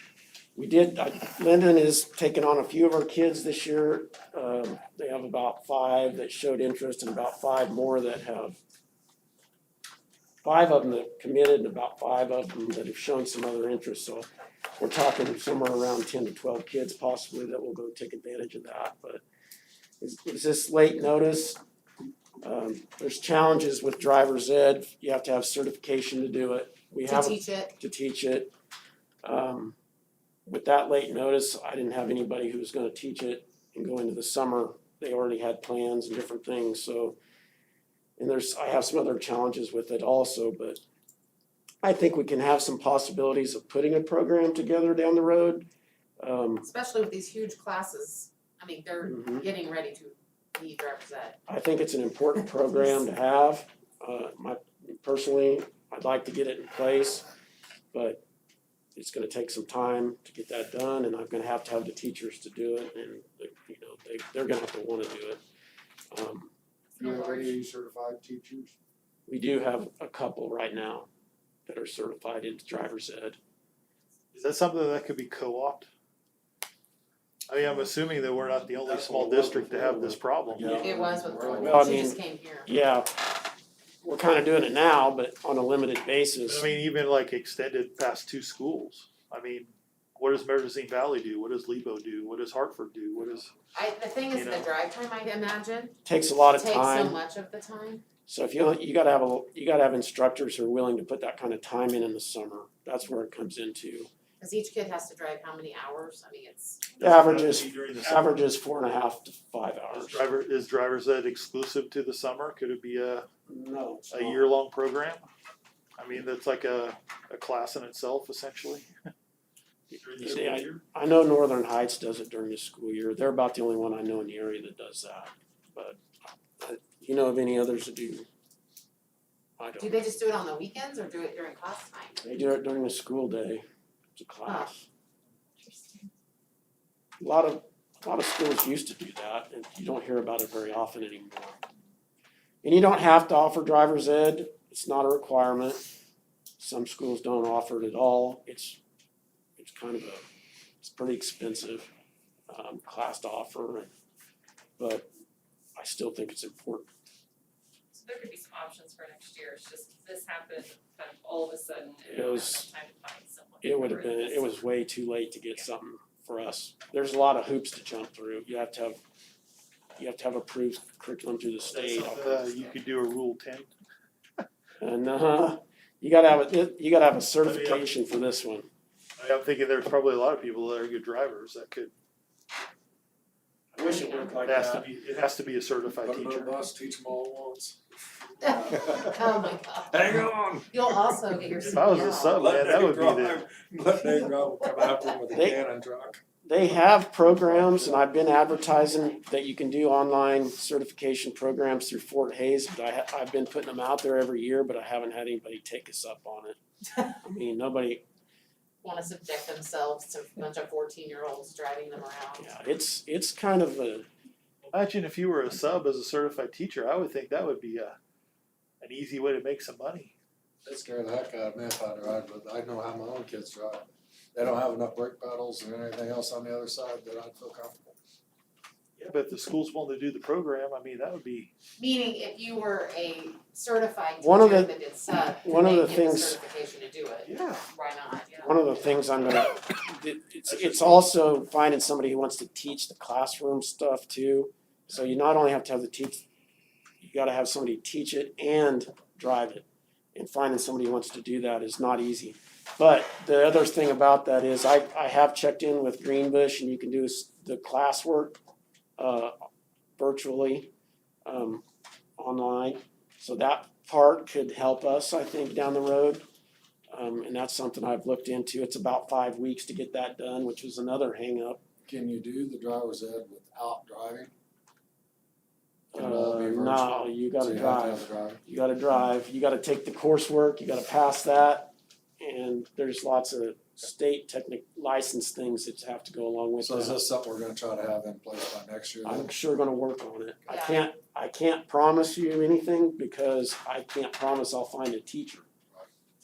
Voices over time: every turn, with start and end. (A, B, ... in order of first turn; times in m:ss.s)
0:00.6-0:08.6 A
0:10.4-0:19.2 A
0:20.0-0:21.6 A
0:22.4-0:28.5 A
0:27.0-0:27.8 B
0:29.2-0:29.8 A
0:30.5-0:37.2 A
0:38.2-0:40.8 A
0:41.8-0:45.7 A
0:46.2-0:46.7 A
0:46.6-0:51.4 B
0:49.1-0:49.5 A
0:51.5-0:57.2 A
0:57.9-0:58.2 A
0:59.0-1:05.4 A
1:06.1-1:06.5 A
1:07.0-1:08.8 C
1:07.0-1:07.5 B
1:09.3-1:11.1 A
1:11.7-1:13.4 A
1:14.3-1:15.9 D
1:17.5-1:20.8 D
1:18.8-1:21.9 C
1:20.6-1:22.7 B
1:21.6-1:23.3 A
1:24.0-1:26.6 A
1:26.5-1:33.5 D
1:33.7-1:36.0 B
1:34.3-1:34.7 D
1:36.0-1:37.2 A
1:36.5-1:38.0 B
1:38.3-1:44.1 A
1:44.4-1:46.9 B
1:47.0-1:50.2 A
1:47.0-1:48.4 D
1:49.9-1:53.3 D
1:53.5-1:54.5 A
1:54.1-1:55.3 D
1:56.0-1:58.9 D
1:59.9-2:00.8 D
2:00.2-2:06.0 A
2:06.6-2:08.3 A
2:09.6-2:10.0 A
2:09.8-2:12.2 B
2:12.2-2:13.6 A
2:14.2-2:14.9 A
2:15.6-2:16.1 E
2:17.2-2:21.6 A
2:22.6-2:25.9 A
2:26.6-2:28.8 A
2:29.6-2:30.2 A
2:30.8-2:31.9 A
2:32.5-2:33.9 A
2:34.8-2:35.1 A
2:35.8-2:36.9 A
2:37.9-2:44.7 E
2:42.1-2:42.7 A
2:43.6-2:49.0 A
2:50.0-2:52.4 A
2:51.7-2:53.7 D
2:54.8-2:58.7 A
2:57.4-2:57.9 D
2:59.2-3:01.9 D
3:03.8-3:04.8 A
3:03.8-3:04.2 B
3:04.4-3:06.6 D
3:06.0-3:07.8 C
3:08.4-3:10.0 B
3:08.7-3:09.2 C
3:09.9-3:11.2 C
3:10.7-3:12.4 B
3:11.6-3:13.5 D
3:12.4-3:16.2 C
3:15.4-3:15.6 A
3:16.4-3:28.0 A
3:17.4-3:18.2 C
3:28.8-3:32.5 B
3:32.4-3:34.1 A
3:34.7-3:38.0 D
3:38.8-3:40.2 D
3:40.6-3:48.0 C
3:49.0-3:51.5 D
3:51.8-3:58.6 B
3:54.2-3:54.7 A
3:55.4-3:56.4 A
3:57.3-3:57.7 D
3:58.4-4:06.3 A
4:00.5-4:01.0 D
4:07.0-4:18.4 A
4:19.0-4:19.5 A
4:20.0-4:20.7 A
4:21.3-4:21.6 A
4:22.2-4:26.2 A
4:26.9-4:31.6 A
4:31.9-4:34.3 C
4:35.9-4:47.0 A
4:36.0-4:38.4 C
4:46.6-4:49.3 C
4:49.0-4:55.5 A
4:50.5-4:50.9 B